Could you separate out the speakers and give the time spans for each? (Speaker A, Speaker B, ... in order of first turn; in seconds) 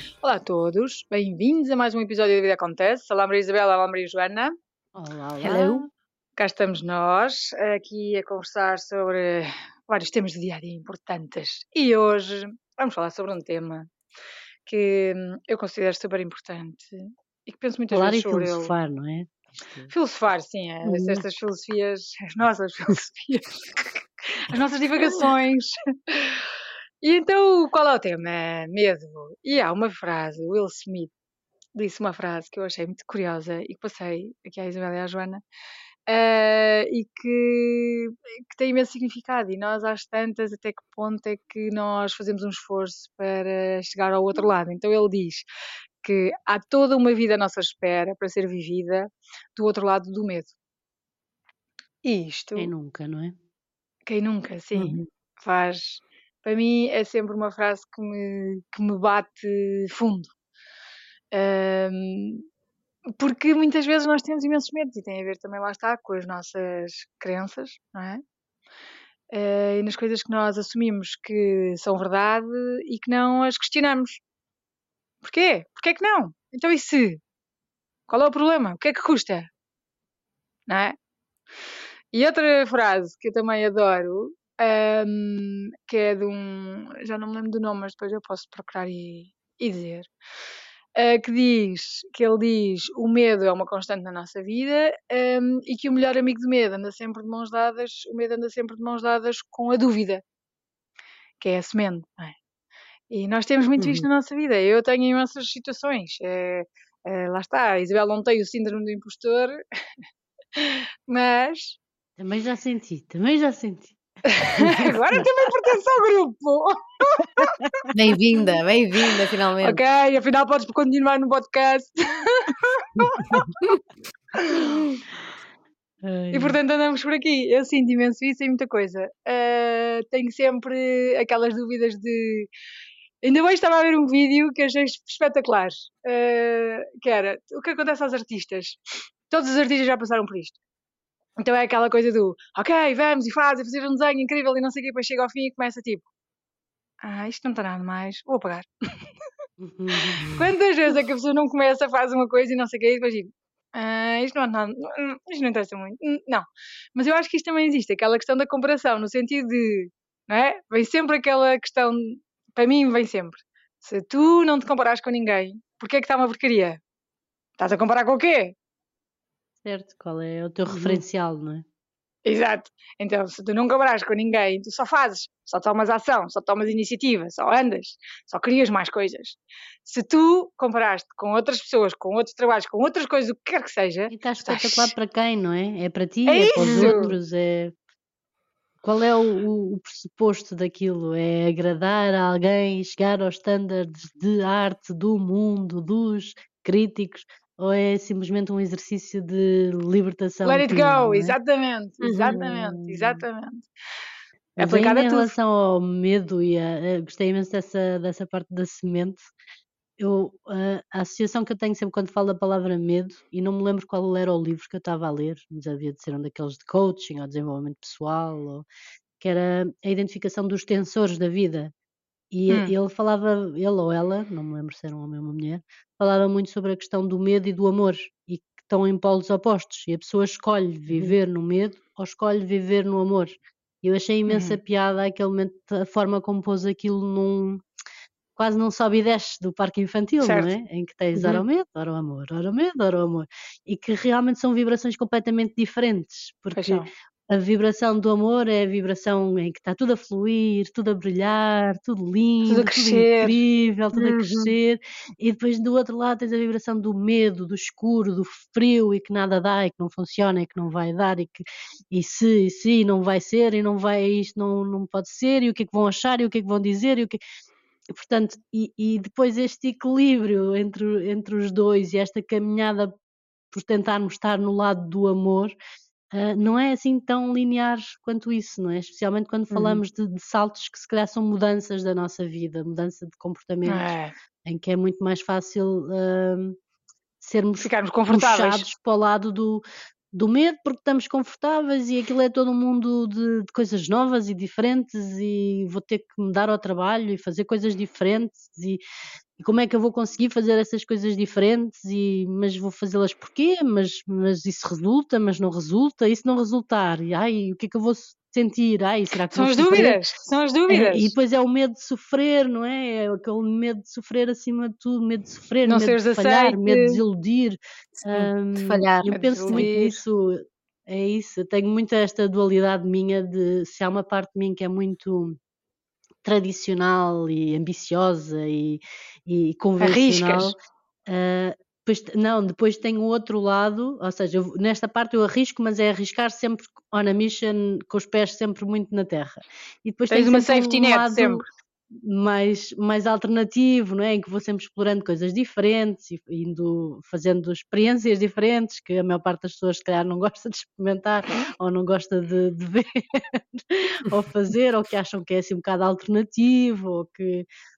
Speaker A: 0.2-4.5, 6.4-13.9, 14.7-18.7, 19.9-26.4, 27.0-31.1, 31.7-35.4, 36.1-45.5, 46.0-50.5, 52.0-52.7, 54.1-60.3, 61.3-62.5, 63.2-68.2, 69.3-74.2, 75.2-77.2, 78.1-79.5, 80.7-81.0, 82.1-90.1, 91.0-100.2, 101.4-102.4, 103.1-109.6, 110.6-111.8, 114.3-117.7, 119.6-123.7, 124.4-124.9, 126.3-132.5, 133.2-138.8, 139.3-140.6, 141.4-146.1, 147.0-148.7, 150.2-166.8, 167.6-168.5, 172.2-184.9, 186.3-187.1, 200.4-203.7, 204.6-205.3, 234.3-234.6, 240.2-240.6, 246.6-246.9, 252.5-253.4, 283.6-284.1, 287.6-288.7, 309.3-311.1, 315.6-317.0, 319.1-320.0, 329.8-330.5, 340.1-341.4
Speaker B: 5.0-5.9, 17.9-19.9, 20.8-21.2, 52.5-53.3, 112.2-114.0, 126.0-126.6, 149.6-150.4, 169.7-171.7, 184.1-187.7, 188.8-201.4, 204.6-209.3, 210.0-218.7, 219.2-221.7, 222.3-237.6, 238.4-267.2, 267.9-272.9, 273.5-275.5, 276.1-283.9, 284.4-286.6, 287.2-298.8, 299.4-310.0, 310.7-325.4, 326.2-330.5, 331.1-357.4
Speaker C: 5.4-5.8, 103.8-104.1, 114.6-114.9, 117.9-119.8, 170.8-171.0, 186.6-187.1, 202.0-203.2, 253.9-254.5, 279.5-279.8, 318.0-319.7